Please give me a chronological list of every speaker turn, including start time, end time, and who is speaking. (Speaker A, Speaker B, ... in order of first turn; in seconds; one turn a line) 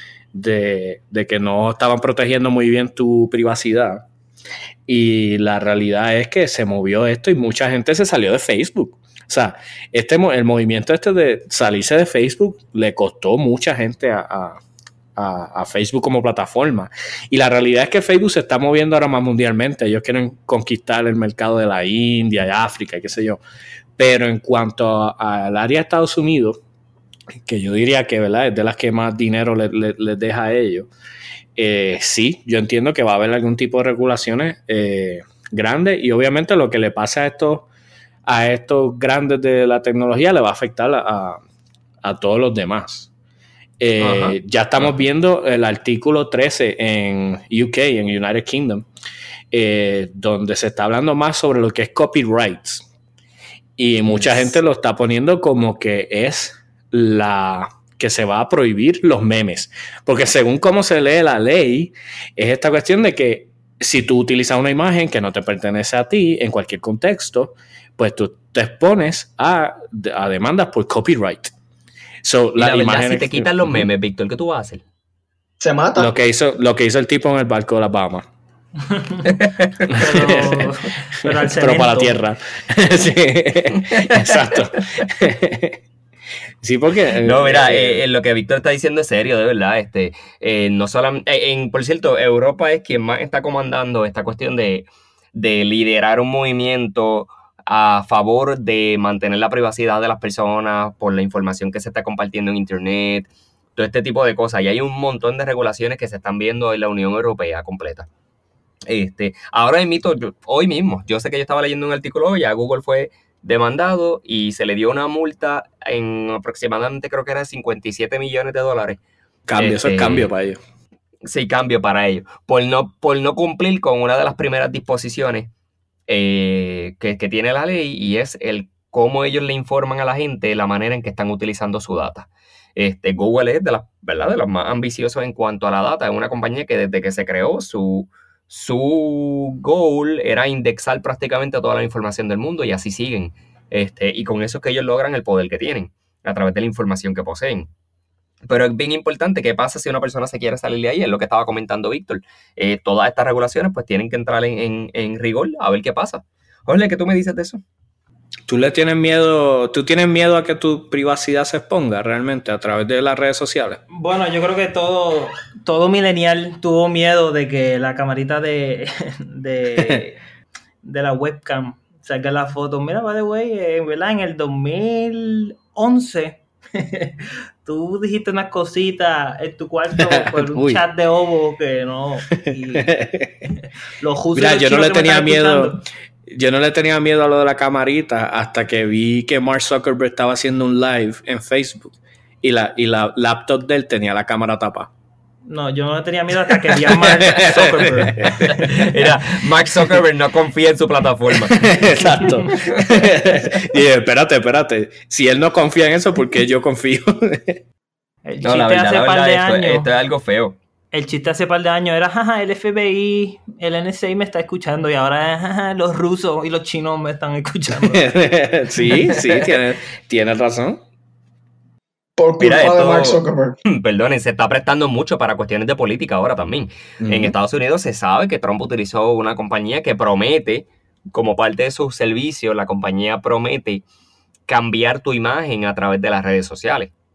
Speaker A: 0.3-4.0
Speaker A: 4.9-14.6
Speaker A: 15.2-23.4
Speaker A: 24.0-26.6
Speaker A: 27.4-30.9
Speaker A: 31.6-37.7
Speaker A: 38.3-41.4
Speaker A: 42.0-43.1
Speaker A: 43.8-48.9
Speaker B: 44.0-45.0
Speaker A: 49.5-52.9
Speaker A: 53.8-71.5
Speaker B: 54.1-54.5
Speaker A: 72.2-73.8
Speaker B: 72.6-74.8
Speaker C: 75.6-76.1
Speaker A: 76.0-78.2
Speaker D: 78.9-79.3
Speaker B: 79.3-79.9
Speaker A: 79.9-80.7
Speaker D: 80.0-82.2
Speaker A: 81.2-85.8
Speaker B: 83.7-84.6
Speaker A: 86.6-88.0
Speaker B: 87.2-108.1
Speaker B: 108.9-119.0
Speaker A: 119.5-120.6
Speaker B: 119.6-120.3
Speaker B: 121.2-125.5
Speaker B: 126.1-147.7
Speaker B: 148.4-157.6
Speaker A: 158.5-163.8
Speaker D: 163.9-170.2
Speaker D: 170.8-182.9
Speaker A: 180.0-180.8
Speaker A: 182.3-183.5
Speaker D: 184.0-185.8
Speaker A: 184.3-194.9
Speaker D: 195.5-198.9
Speaker A: 196.9-198.6
Speaker B: 198.4-202.0
Speaker A: 201.4-207.6
Speaker B: 202.5-202.8
Speaker D: 208.3-209.9
Speaker B: 208.4-210.6
Speaker D: 210.9-218.1
Speaker A: 217.8-220.8
Speaker B: 219.1-219.4
Speaker C: 222.2-223.6
Speaker B: 222.4-233.8
Speaker A: 227.0-227.3
Speaker B: 234.5-236.9